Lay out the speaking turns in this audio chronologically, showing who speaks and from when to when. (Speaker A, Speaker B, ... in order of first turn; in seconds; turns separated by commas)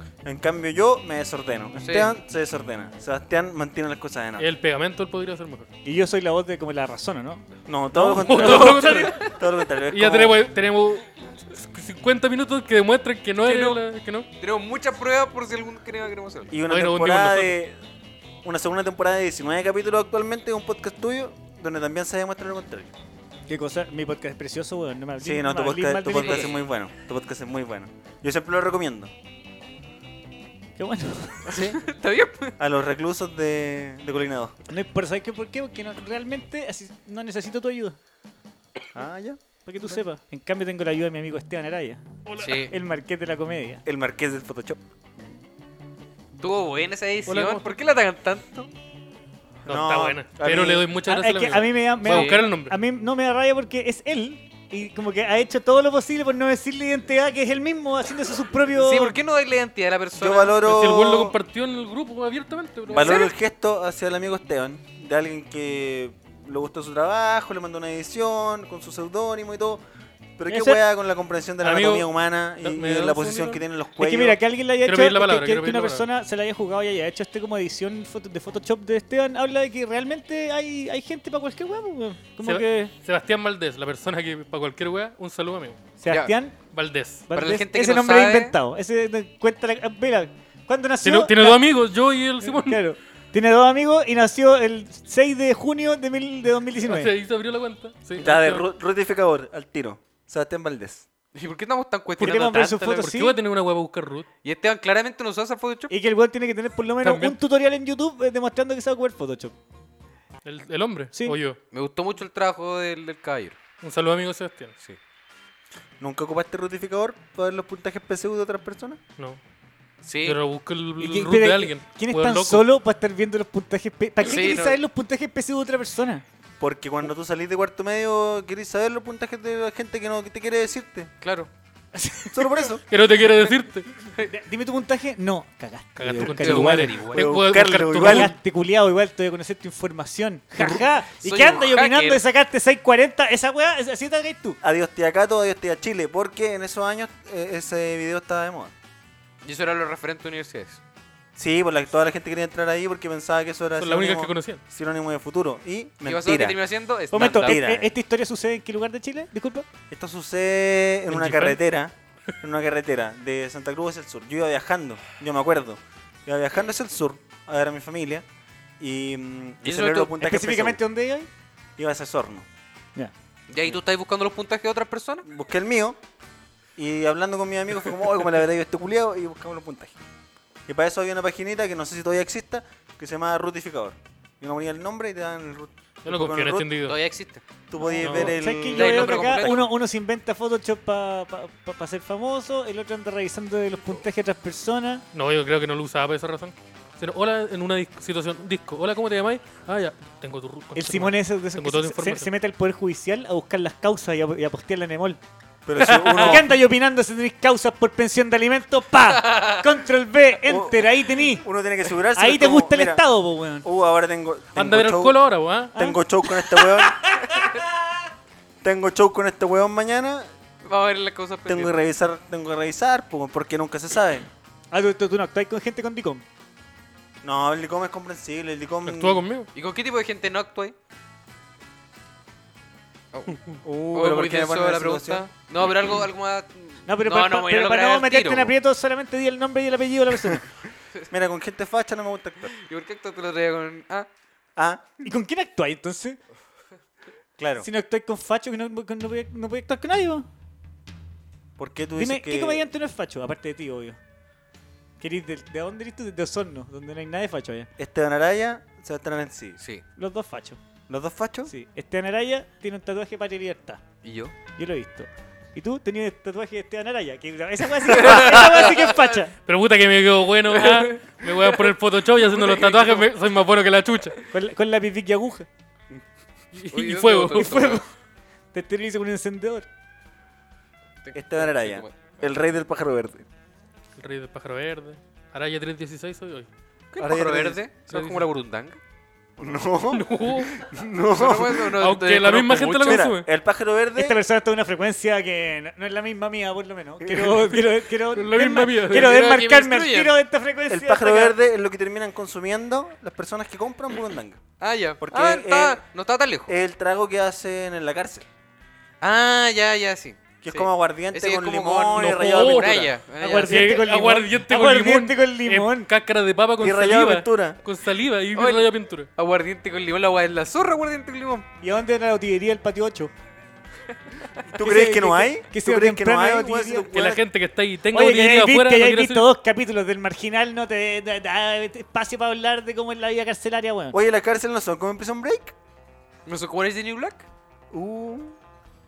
Speaker A: 0.2-4.5, Speaker B: 1.8-2.1, Speaker C: 4.4-5.7, Speaker D: 5.8-8.9, Speaker A: 7.7-10.4, Speaker C: 8.0-14.3, Speaker B: 8.4-9.2, Speaker B: 13.4-13.8, Speaker B: 14.4-16.5, Speaker A: 16.5-17.8, Speaker C: 16.7-17.6, Speaker A: 18.4-22.9, Speaker D: 23.5-26.5, Speaker A: 25.2-29.1, Speaker B: 26.1-26.6, Speaker D: 30.8-31.5, Speaker A: 31.4-31.8, Speaker B: 31.4-32.5, Speaker A: 32.6-34.6, Speaker D: 34.7-38.0, Speaker A: 38.9-39.4, Speaker D: 39.6-43.8, Speaker C: 42.3-42.6, Speaker B: 42.4-42.7, Speaker A: 43.9-44.8, Speaker B: 46.4-48.7, Speaker C: 47.2-47.7, Speaker A: 49.6-50.9, Speaker C: 49.6-52.8, Speaker D: 51.0-59.1, Speaker B: 52.1-52.4, Speaker B: 58.7-60.6, Speaker A: 60.1-61.4, Speaker C: 60.6-63.3, Speaker A: 62.9-69.8, Speaker A: 70.4-74.4, Speaker D: 70.5-70.8, Speaker C: 71.6-73.6, Speaker D: 74.0-82.9, Speaker C: 74.8-76.0, Speaker C: 82.4-85.8, Speaker D: 86.0-86.5, Speaker C: 86.7-87.2, Speaker D: 87.3-91.6, Speaker B: 87.3-88.5, Speaker C: 91.0-92.8, Speaker D: 92.4-97.1, Speaker C: 96.8-98.6, Speaker A: 98.2-101.0, Speaker B: 101.3-103.0, Speaker D: 102.2-103.4, Speaker C: 102.3-104.3, Speaker B: 104.4-105.9, Speaker D: 105.9-109.5, Speaker C: 107.0-107.4, Speaker C: 110.4-111.6, Speaker B: 111.7-113.6, Speaker C: 113.8-114.7, Speaker A: 116.0-119.0, Speaker B: 120.0-120.4, Speaker C: 120.2-122.6, Speaker D: 121.0-126.2, Speaker B: 124.2-124.8, Speaker A: 126.6-131.1, Speaker B: 131.2-131.5, Speaker D: 131.9-132.7, Speaker A: 132.3-132.8, Speaker C: 132.9-133.9, Speaker D: 134.3-137.0, Speaker C: 136.0-138.3, Speaker B: 136.2-137.3, Speaker A: 137.1-138.3, Speaker D: 137.9-144.6, Speaker B: 141.2-142.2, Speaker A: 144.6-148.7, Speaker B: 149.4-150.8, Speaker A: 151.3-156.6, Speaker C: 153.8-154.6, Speaker B: 156.0-157.6, Speaker D: 157.1-159.7, Speaker A: 157.2-157.9, Speaker A: 159.9-168.2, Speaker C: 161.1-161.6, Speaker A: 168.8-170.8, Speaker B: 169.6-170.2, Speaker D: 170.2-171.3, Speaker A: 171.8-172.4, Speaker B: 173.5-175.2, Speaker A: 175.2-176.0, Speaker A: 176.8-179.9, Speaker A: 180.7-186.7, Speaker C: 186.0-187.0, Speaker B: 186.8-187.4, Speaker A: 187.7-189.7, Speaker D: 187.8-195.0, Speaker C: 188.0-188.3, Speaker B: 188.6-189.7, Speaker C: 195.1-202.3, Speaker D: 200.7-205.2, Speaker A: 205.7-206.5, Speaker C: 205.8-206.4, Speaker D: 205.8-211.4, Speaker A: 210.4-213.1, Speaker D: 212.1-213.7, Speaker A: 213.6-215.2, Speaker C: 214.5-215.7, Speaker D: 215.7-216.0, Speaker A: 215.7-217.3, Speaker D: 217.2-217.4, Speaker A: 218.6-220.3, Speaker B: 220.6-221.7, Speaker A: 221.4-224.2, Speaker D: 224.7-226.2, Speaker A: 227.2-229.2, Speaker C: 228.8-229.5, Speaker B: 229.5-230.8, Speaker B: 233.1-233.4, Speaker A: 233.6-235.2, Speaker B: 233.9-238.5, Speaker D: 236.8-240.4, Speaker A: 241.1-242.5, Speaker B: 242.4-244.1, Speaker A: 244.6-244.8, Speaker D: 245.0-246.2, Speaker A: 247.4-247.7, Speaker D: 247.6-250.3, Speaker A: 251.6-252.7, Speaker D: 252.0-254.0, Speaker D: 255.0-257.7, Speaker A: 257.8-259.6, Speaker B: 259.6-259.8, Speaker D: 259.9-260.6, Speaker A: 260.9-261.5, Speaker D: 261.5-263.8, Speaker B: 264.0-264.3, Speaker D: 264.5-269.3, Speaker B: 268.0-269.0, Speaker C: 269.5-274.2, Speaker B: 270.5-273.1, Speaker D: 274.3-275.5, Speaker C: 276.5-277.8, Speaker B: 276.7-277.8, Speaker D: 277.3-277.9, Speaker D: 278.5-279.7, Speaker B: 281.0-282.0, Speaker A: 281.1-283.2, Speaker C: 284.0-286.5, Speaker A: 286.9-287.6, Speaker B: 287.0-288.8, Speaker C: 287.9-288.2, Speaker A: 289.4-291.7, Speaker C: 289.9-290.7, Speaker B: 291.1-293.1, Speaker C: 291.6-293.3, Speaker A: 292.8-294.2, Speaker D: 293.9-301.4, Speaker A: 297.0-297.6, Speaker C: 298.1-299.5, Speaker B: 298.9-300.1, Speaker A: 300.7-304.4, Speaker B: 304.6-306.5, Speaker A: 305.0-305.8, Speaker A: 306.4-308.3, Speaker B: 309.0-313.7, Speaker A: 310.4-312.9, Speaker C: 311.9-319.1, Speaker D: 313.2-315.9, Speaker A: 316.6-317.6, Speaker B: 318.3-321.4, Speaker D: 321.6-323.1, Speaker A: 324.5-327.2, Speaker D: 324.6-326.9, Speaker C: 326.9-329.3, Speaker D: 327.9-334.0, Speaker A: 333.9-335.5, Speaker B: 336.2-337.2, Speaker A: 337.7-338.4